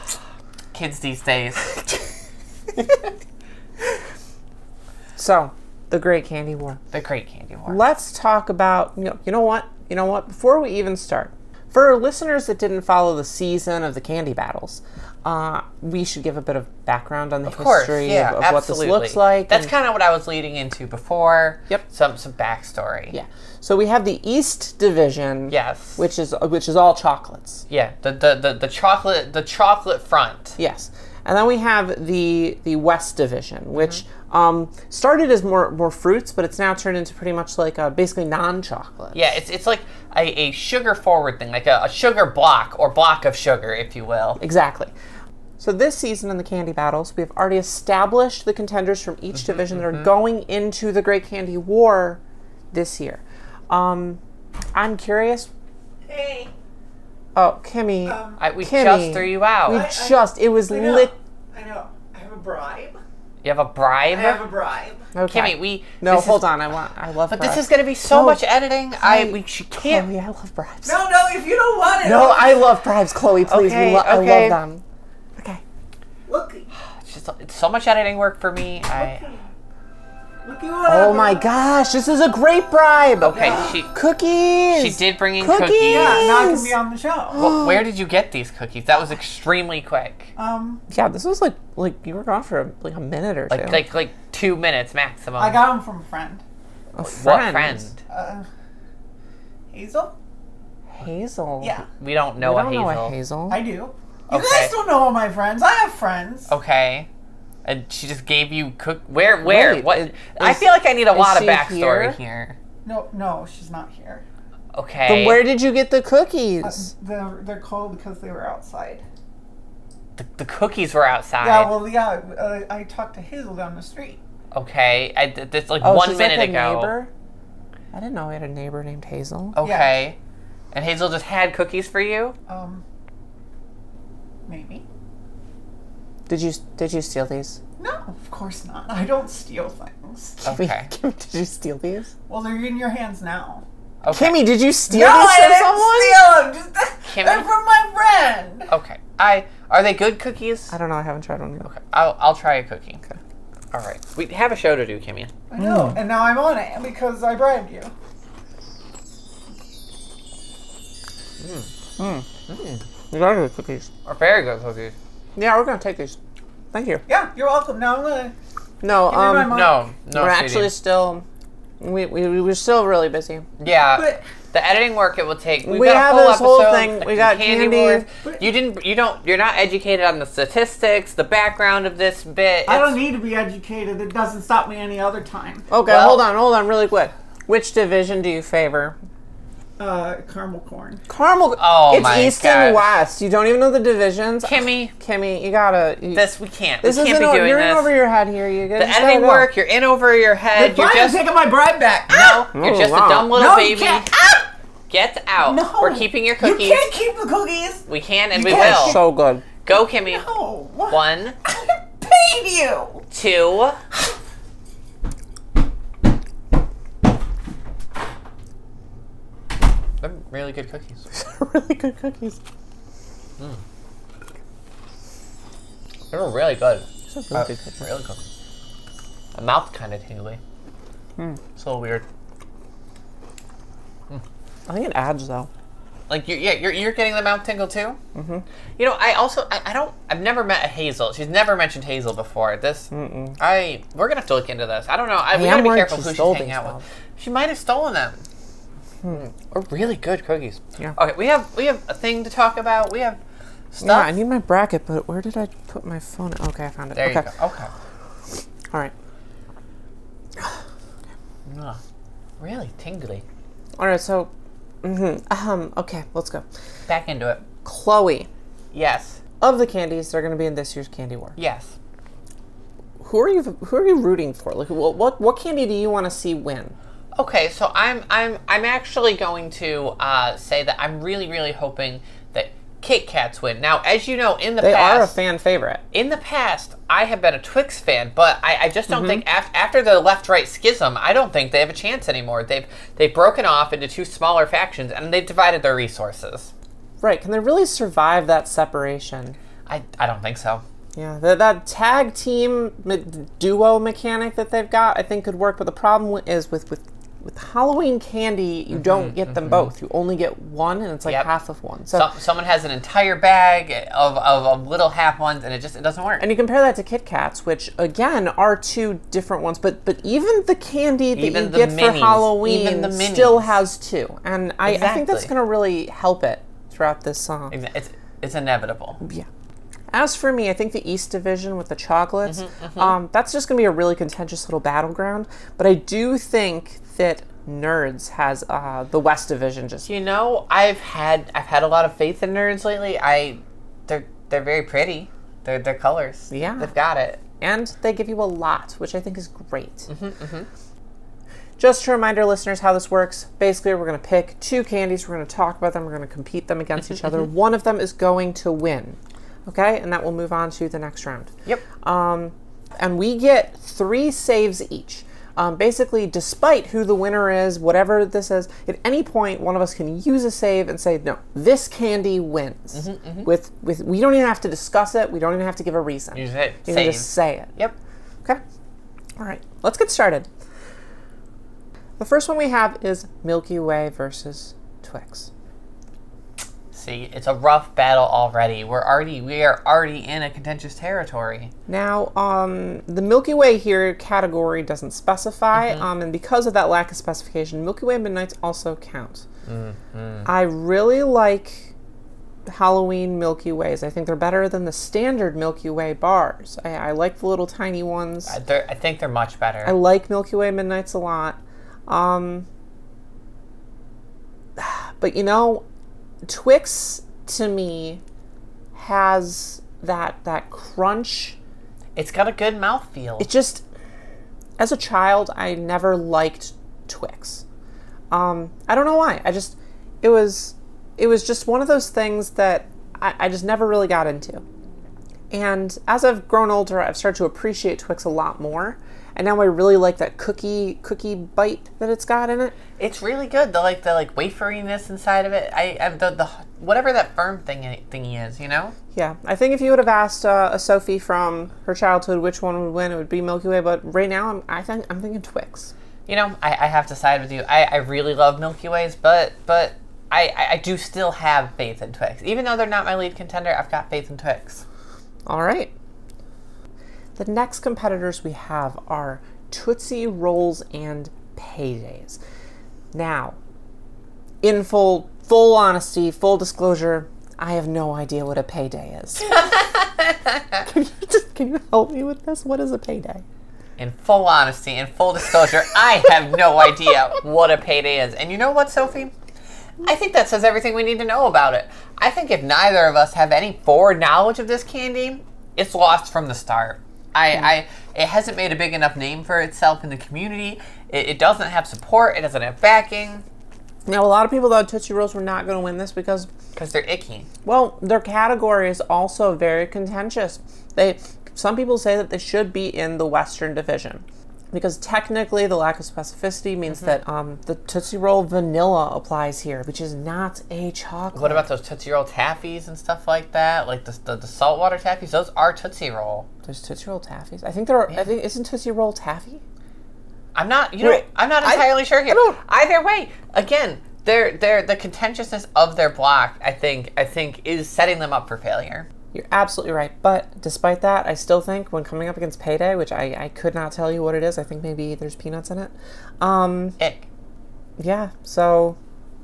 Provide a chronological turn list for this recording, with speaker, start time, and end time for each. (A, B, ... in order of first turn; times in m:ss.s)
0:00.7-0:01.8 A
0:05.2-0:06.8 B
0:06.9-0:07.8 A
0:07.7-0:19.7 B
0:17.4-0:23.1 A
0:23.1-0:27.6 B
0:25.5-0:26.0 A
0:27.7-0:30.6 A
0:30.6-0:39.3 B
0:39.1-0:44.4 A
0:44.4-0:44.9 B
0:45.6-0:52.2 B
0:49.6-0:50.0 A
0:52.7-0:54.2 B
0:54.7-0:55.5 B
0:56.1-0:56.5 C
0:57.4-1:01.1 B
0:58.0-0:58.4 C
0:58.4-0:59.8 A
0:59.6-1:03.0 C
1:03.4-1:04.4 A
1:04.1-1:05.1 C
1:05.1-1:11.0 B
1:05.3-1:06.4 A
1:07.3-1:10.1 A
1:10.8-1:12.7 C
1:12.0-1:14.8 B
1:13.5-1:14.6 A
1:15.4-1:15.6 B
1:16.3-1:16.7 C
1:17.0-1:19.3 A
1:18.9-1:19.5 C
1:20.4-1:21.5 C
1:20.9-1:26.7 B
1:23.2-1:23.9 A
1:23.2-1:23.8 C
1:24.7-1:26.3 A
1:25.8-1:27.4 C
1:27.3-1:27.8 B
1:27.4-1:30.3 A
1:30.4-1:30.8 C
1:30.9-1:33.8 B
1:33.5-1:35.6 A
1:35.4-1:36.4 C
1:36.9-1:37.9 B
1:37.0-1:38.0 A
1:38.1-1:38.5 C
1:39.7-1:40.1 C
1:40.9-1:41.8 B
1:41.6-1:41.9 C
1:42.0-1:43.1 A
1:42.4-1:43.6 B
1:43.5-1:46.5 C
1:44.3-1:44.7 A
1:46.5-1:47.1 A
1:47.6-1:52.6 A
1:49.4-1:52.2 B
1:52.8-1:54.2 C
1:54.7-1:55.5 A
1:55.0-1:56.9 B
1:56.6-1:59.0 C
2:00.2-2:01.8 A
2:01.4-2:04.2 C
2:04.5-2:06.9 A
2:05.8-2:07.1 B
2:07.9-2:09.6 B
2:09.5-2:10.2 A
2:09.6-2:10.0 C
2:10.7-2:12.4 A
2:12.5-2:12.8 C
2:14.5-2:14.8 C
2:16.3-2:17.6 B
2:17.8-2:20.4 C
2:20.4-2:20.9 A
2:20.4-2:22.1 B
2:22.3-2:23.6 C
2:24.0-2:24.4 A
2:24.1-2:26.2 B
2:24.9-2:28.7 C
2:27.0-2:27.5 A
2:28.7-2:30.7 A
2:30.7-2:31.7 B
2:31.6-2:33.0 A
2:33.7-2:35.3 A
2:35.5-2:37.9 C
2:35.6-2:36.0 B
2:41.4-2:41.7 A
2:42.0-2:42.2 B
2:42.5-2:42.8 A
2:43.1-2:43.9 B
2:44.0-2:44.9 A
2:45.4-2:46.2 B
2:46.7-2:47.0 B
2:47.1-2:48.3 C
2:48.8-2:51.2 B
2:49.1-2:49.8 C
2:49.4-2:50.7 A
2:51.8-2:53.4 B
2:53.6-3:03.0 A
2:53.9-2:54.2 C
2:55.6-2:58.0 B
3:02.6-3:05.7 C
3:05.7-3:09.0 B
3:05.8-3:06.2 A
3:09.8-3:11.0 C
3:11.1-3:16.2 B
3:11.6-3:12.9 A
3:14.4-3:14.9 A
3:16.1-3:17.9 A
3:16.8-3:19.5 B
3:18.8-3:21.2 A
3:20.5-3:22.5 C
3:22.1-3:24.1 A
3:22.5-3:23.4 B
3:23.3-3:24.5 C
3:24.9-3:26.9 A
3:25.4-3:29.0 C
3:27.9-3:29.0 A
3:28.5-3:29.4 B
3:29.6-3:30.2 A
3:29.7-3:33.1 C
3:30.9-3:31.4 A
3:33.1-3:33.8 A
3:40.0-3:41.0 A
3:41.1-3:42.4 B
3:46.1-3:48.2 A
3:47.1-3:47.8 B
3:49.3-3:50.4 A
3:51.6-3:52.0 A
3:54.7-3:55.5 B
3:56.1-3:58.0 A
3:58.1-3:58.4 B
3:58.8-4:08.2 A
4:02.9-4:03.4 B
4:05.3-4:06.8 B
4:09.1-4:13.2 A
4:13.7-4:14.1 A
4:13.8-4:17.3 B
4:16.9-4:17.7 A
4:21.4-4:21.8 A
4:22.4-4:23.2 A
4:23.8-4:24.3 B
4:24.8-4:26.4 B
4:26.9-4:27.4 A
4:27.6-4:28.3 B
4:28.7-4:29.2 A
4:29.4-4:31.4 B
4:31.4-4:31.8 A
4:33.0-4:36.7 B
4:37.1-4:45.2 A
4:44.6-4:45.8 B
4:45.9-4:56.5 A
4:48.9-4:49.2 B
4:57.0-4:59.4 B
4:59.6-5:00.6 A
5:01.0-5:12.1 B
5:08.7-5:09.7 A
5:11.9-5:16.2 A
5:16.2-5:27.5 B
5:21.1-5:23.6 A
5:24.6-5:25.3 A
5:27.5-5:29.0 A
5:29.0-5:29.2 B
5:29.9-5:39.9 B
5:32.2-5:33.0 A
5:39.8-5:47.2 A
5:46.3-5:46.7 B
5:47.4-5:49.9 B
5:49.9-5:50.5 A
5:51.6-6:17.5 B
6:12.7-6:13.3 A
6:16.1-6:17.7 A
6:19.2-6:20.3 B
6:22.0-6:25.3 B
6:26.7-6:31.5 A
6:31.7-6:39.2 B
6:35.5-6:35.8 A
6:39.4-6:40.3 A
6:40.2-6:41.7 B
6:42.5-6:48.4 B
6:48.3-6:49.8 A
6:49.6-6:52.5 B
6:54.6-6:55.6 B
6:56.2-6:58.0 B
6:58.7-7:01.4 B
7:02.0-7:03.3 A
7:03.2-7:03.6 B
7:04.6-7:07.4 B
7:08.1-7:14.4 B
7:15.3-7:22.6 B
7:22.8-7:28.7 A
7:28.9-7:35.7 B
7:36.1-7:44.6 A
7:45.2-7:45.7 B
7:47.2-7:52.2 B
7:52.9-7:53.4 B
7:54.4-7:59.6 B
7:59.3-8:00.6 A
8:00.6-8:03.2 B
8:03.8-8:09.1 A
8:09.8-8:23.2 A
8:23.8-8:26.3 B
8:26.5-8:27.3 A
8:27.4-8:41.4 B
8:41.1-8:46.3 A
8:46.4-8:49.4 B
8:50.3-8:58.9 A
8:50.8-8:52.4 B
8:59.1-9:06.8 B
9:06.8-9:07.1 A
9:07.8-9:08.8 B